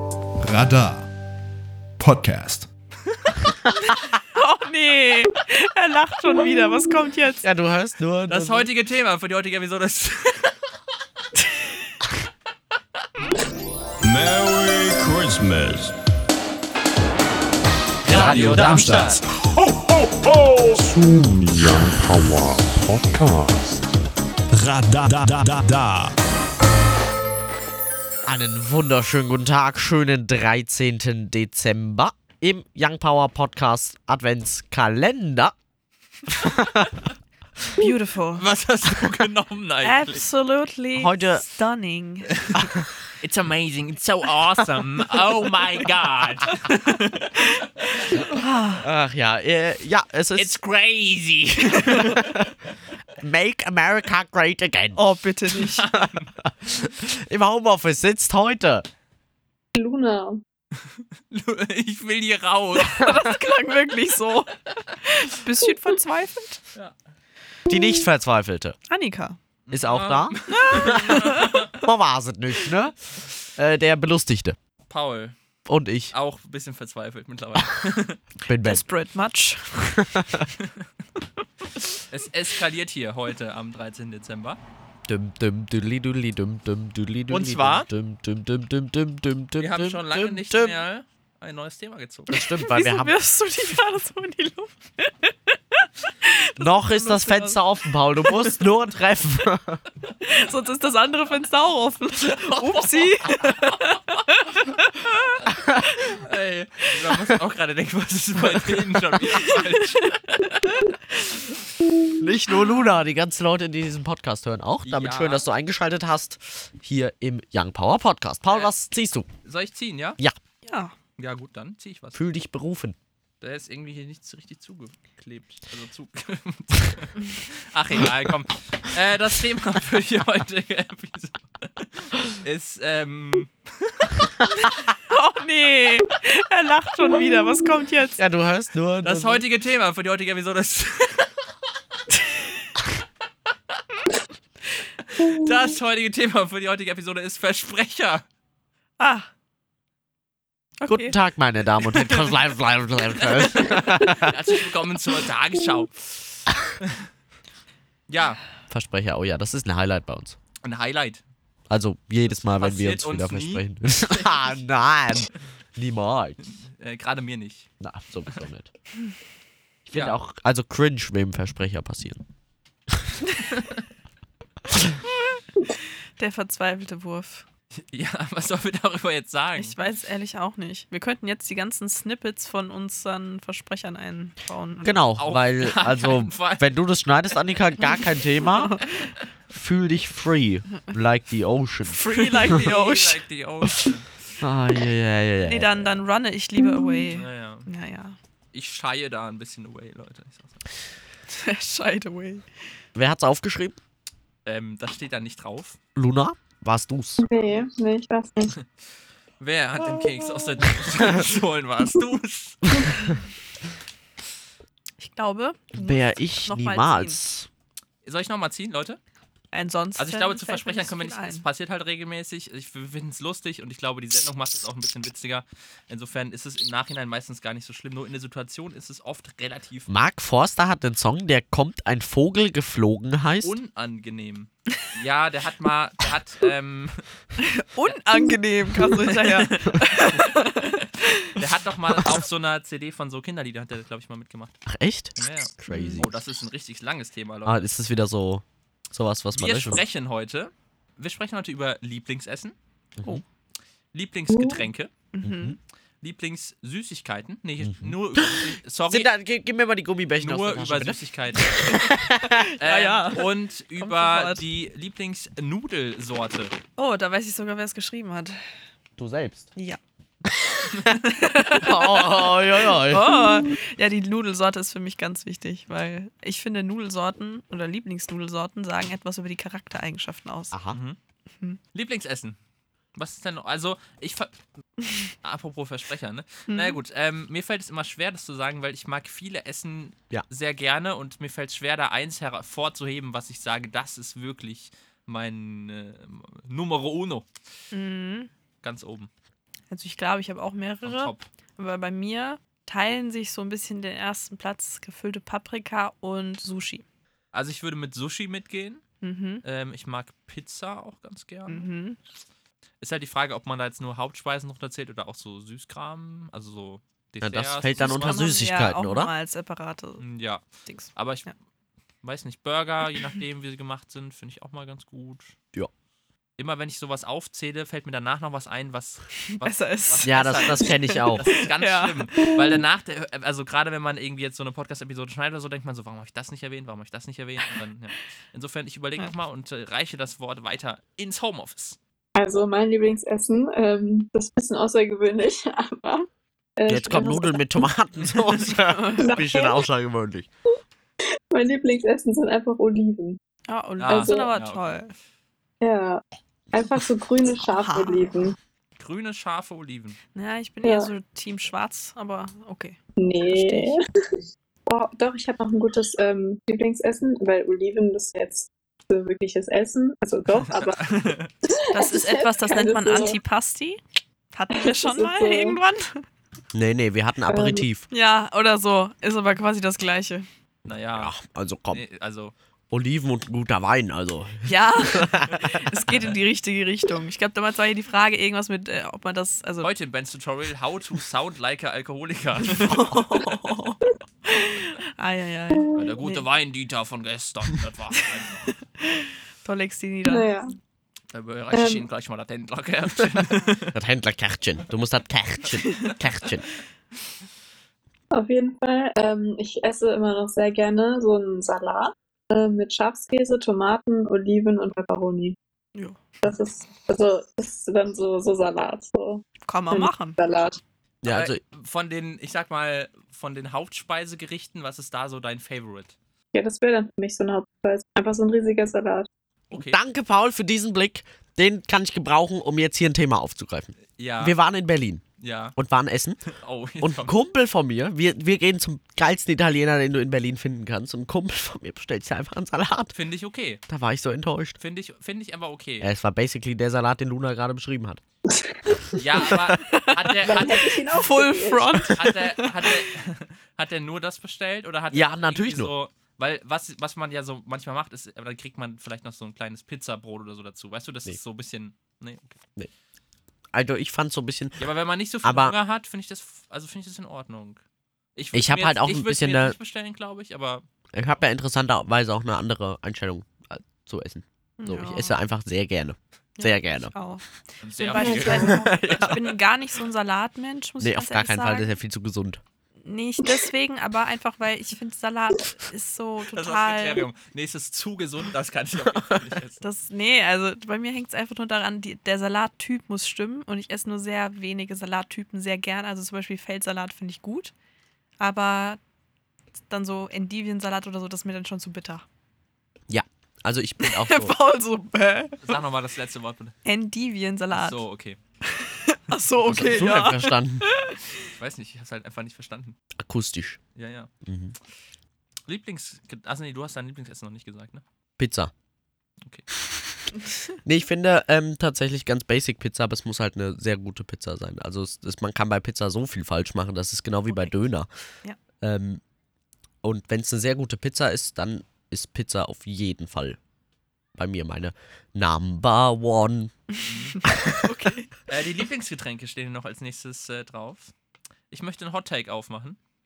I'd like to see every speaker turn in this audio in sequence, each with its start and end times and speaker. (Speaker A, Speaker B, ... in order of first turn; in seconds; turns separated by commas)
Speaker A: 0.4-1.1, Speaker A: 2.0-2.7, Speaker B: 4.3-7.4, Speaker C: 7.4-8.7, Speaker D: 8.3-10.6, Speaker E: 14.0-15.9, Speaker A: 18.0-23.7, Speaker D: 18.1-19.2, Speaker E: 18.1-19.0, Speaker E: 24.6-26.1, Speaker A: 24.7-24.9, Speaker A: 25.5-25.9, Speaker C: 28.2-35.5, Speaker C: 36.3-37.0, Speaker B: 37.8-38.5, Speaker D: 38.4-40.2, Speaker B: 39.8-42.3, Speaker C: 40.9-41.4, Speaker D: 42.4-42.7, Speaker C: 42.5-42.9, Speaker D: 43.2-48.2, Speaker B: 47.5-48.9, Speaker C: 48.8-50.6, Speaker D: 50.4-52.3, Speaker C: 52.0-52.5, Speaker C: 53.2-55.0, Speaker B: 54.9-55.8, Speaker D: 55.5-56.3, Speaker C: 55.9-58.9, Speaker F: 59.7-60.4, Speaker D: 61.3-63.3, Speaker B: 62.8-66.6, Speaker C: 67.7-68.8, Speaker B: 68.9-69.4, Speaker D: 69.7-71.7, Speaker C: 69.7-74.6, Speaker B: 70.5-71.7, Speaker D: 74.9-75.3, Speaker C: 75.7-76.1, Speaker D: 76.1-78.2, Speaker C: 78.5-78.8, Speaker B: 78.5-80.0, Speaker C: 79.8-80.5, Speaker D: 80.6-80.8, Speaker D: 82.1-84.6, Speaker C: 85.1-90.8, Speaker D: 87.3-87.9, Speaker D: 89.6-92.3, Speaker C: 92.3-93.2, Speaker B: 92.4-97.6, Speaker C: 96.6-99.8, Speaker B: 98.2-98.6, Speaker B: 100.2-106.2, Speaker D: 102.4-103.8, Speaker D: 106.1-110.9, Speaker C: 108.4-109.3, Speaker C: 112.2-119.3, Speaker D: 114.8-115.4, Speaker D: 119.4-120.2, Speaker B: 120.7-120.9, Speaker D: 121.2-122.2, Speaker C: 122.1-123.0, Speaker D: 123.4-134.2, Speaker B: 135.1-138.2, Speaker C: 138.2-139.4, Speaker D: 139.0-141.3, Speaker B: 142.2-142.5, Speaker D: 145.0-148.2, Speaker B: 149.0-149.3, Speaker B: 150.8-151.2, Speaker C: 150.9-154.4, Speaker D: 152.0-152.3, Speaker D: 153.2-157.1, Speaker D: 158.1-158.4, Speaker C: 158.7-160.3, Speaker D: 160.6-161.2, Speaker C: 161.7-166.4, Speaker D: 162.2-164.6, Speaker D: 166.5-167.7, Speaker C: 167.8-168.7, Speaker C: 169.8-172.2, Speaker D: 169.9-170.2, Speaker B: 176.2-177.4, Speaker D: 177.8-179.8, Speaker B: 179.6-185.0, Speaker C: 184.8-188.8, Speaker D: 185.2-186.7, Speaker B: 188.5-188.9, Speaker C: 189.5-192.6, Speaker B: 191.8-193.2, Speaker D: 192.2-194.2, Speaker C: 194.4-195.9, Speaker B: 195.4-198.2, Speaker D: 197.1-197.7, Speaker D: 198.5-200.6, Speaker B: 201.3-202.5, Speaker C: 202.9-203.8, Speaker D: 204.4-205.8, Speaker C: 205.9-207.2, Speaker F: 207.2-208.6, Speaker D: 209.4-213.1, Speaker B: 215.0-217.2, Speaker C: 215.7-217.5, Speaker D: 218.0-219.0, Speaker B: 219.5-221.4, Speaker D: 220.0-229.9, Speaker C: 229.9-233.5, Speaker D: 233.4-237.1, Speaker B: 237.4-241.4, Speaker D: 238.8-240.7, Speaker D: 241.3-244.6, Speaker C: 244.7-246.2, Speaker D: 245.2-247.6, Speaker B: 245.7-246.0, Speaker C: 247.4-249.8, Speaker D: 249.3-252.5, Speaker C: 253.0-253.2, Speaker D: 253.9-254.9, Speaker F: 254.3-254.6, Speaker B: 255.1-255.6, Speaker C: 255.2-255.6, Speaker D: 256.0-259.1, Speaker C: 257.6-262.5, Speaker D: 260.2-261.8, Speaker B: 262.3-263.3, Speaker D: 262.6-266.6, Speaker B: 263.8-264.4, Speaker B: 266.8-268.4, Speaker C: 269.0-269.5, Speaker C: 270.4-270.7, Speaker B: 270.9-280.6, Speaker C: 271.4-273.4, Speaker C: 280.5-280.8, Speaker D: 280.7-281.0, Speaker D: 281.7-282.4, Speaker D: 282.9-284.3, Speaker D: 285.2-297.3, Speaker B: 286.5-286.8, Speaker B: 297.7-298.3, Speaker D: 298.6-299.1, Speaker B: 299.7-306.8, Speaker D: 300.8-301.3, Speaker D: 307.3-308.8, Speaker B: 309.0-309.4, Speaker D: 309.4-311.7, Speaker B: 311.5-312.0, Speaker D: 312.8-318.3, Speaker C: 317.2-319.1, Speaker B: 317.8-320.0, Speaker D: 320.0-320.4, Speaker B: 320.6-321.3, Speaker D: 320.9-321.3, Speaker D: 322.0-325.3, Speaker D: 326.4-341.8, Speaker B: 329.3-332.4, Speaker C: 330.0-331.3, Speaker F: 342.1-346.1, Speaker F: 346.6-347.6, Speaker C: 346.7-350.3, Speaker B: 348.6-349.2, Speaker F: 349.0-349.6, Speaker F: 351.3-353.2, Speaker B: 353.5-354.9, Speaker D: 353.8-354.6, Speaker F: 353.9-354.3, Speaker F: 355.6-358.4, Speaker B: 357.5-358.1, Speaker D: 358.8-360.0, Speaker B: 360.1-362.8, Speaker F: 360.6-360.9, Speaker F: 363.0-363.8, Speaker B: 363.3-363.7, Speaker F: 364.7-373.2, Speaker D: 370.3-371.3, Speaker B: 371.7-373.8, Speaker B: 374.3-376.1, Speaker F: 374.5-375.6, Speaker C: 376.5-377.8, Speaker F: 377.3-377.6, Speaker B: 377.9-380.3, Speaker D: 380.6-381.1, Speaker C: 380.9-381.8, Speaker D: 381.7-382.3, Speaker C: 382.7-385.6, Speaker B: 384.4-389.7, Speaker D: 389.6-393.4, Speaker B: 392.4-396.2, Speaker F: 395.6-395.9, Speaker D: 395.7-398.5, Speaker B: 398.0-400.3, Speaker F: 400.1-400.5, Speaker D: 401.1-403.7, Speaker F: 401.5-401.8, Speaker C: 403.7-406.4, Speaker F: 408.1-415.4, Speaker B: 415.8-416.0, Speaker F: 416.2-420.6, Speaker B: 419.4-420.2, Speaker C: 421.0-421.4, Speaker D: 421.0-425.9, Speaker F: 426.3-429.1, Speaker D: 429.5-429.8, Speaker C: 429.5-435.0, Speaker D: 434.0-434.4, Speaker D: 435.2-435.5, Speaker C: 435.5-436.2, Speaker D: 436.3-437.1, Speaker C: 436.8-442.9, Speaker D: 442.9-443.6, Speaker C: 443.7-444.6, Speaker D: 444.6-445.9, Speaker C: 445.8-448.0, Speaker F: 448.5-448.9, Speaker D: 448.9-450.8, Speaker C: 449.3-449.5, Speaker B: 449.6-450.2, Speaker F: 450.2-451.8, Speaker B: 450.9-452.8, Speaker D: 451.9-462.4, Speaker C: 454.9-455.7, Speaker C: 463.5-464.7, Speaker D: 464.6-467.6, Speaker C: 465.2-465.6, Speaker D: 468.1-470.6, Speaker C: 468.3-469.6, Speaker C: 470.9-476.9, Speaker B: 474.6-475.2, Speaker B: 476.4-481.7, Speaker D: 477.6-479.1, Speaker F: 478.0-478.5, Speaker C: 478.1-479.2, Speaker C: 480.8-482.4, Speaker B: 482.8-487.1, Speaker D: 486.3-489.6, Speaker C: 488.9-489.2, Speaker B: 489.6-497.5, Speaker B: 498.2-498.8, Speaker B: 499.7-502.0, Speaker C: 502.9-504.4, Speaker B: 503.8-505.5, Speaker D: 505.4-506.6, Speaker B: 506.6-507.8, Speaker D: 507.5-508.2, Speaker B: 508.4-511.3, Speaker C: 509.4-510.6, Speaker D: 511.4-512.8, Speaker C: 513.0-513.6, Speaker D: 513.8-514.1, Speaker C: 514.2-514.5, Speaker D: 515.5-517.8, Speaker C: 518.2-518.5, Speaker C: 520.6-527.9, Speaker B: 527.3-527.5, Speaker C: 528.6-529.0, Speaker C: 529.8-533.4, Speaker C: 534.1-536.5, Speaker D: 536.8-537.2, Speaker B: 536.9-538.1, Speaker C: 537.2-537.7, Speaker D: 538.3-540.9, Speaker D: 541.5-542.8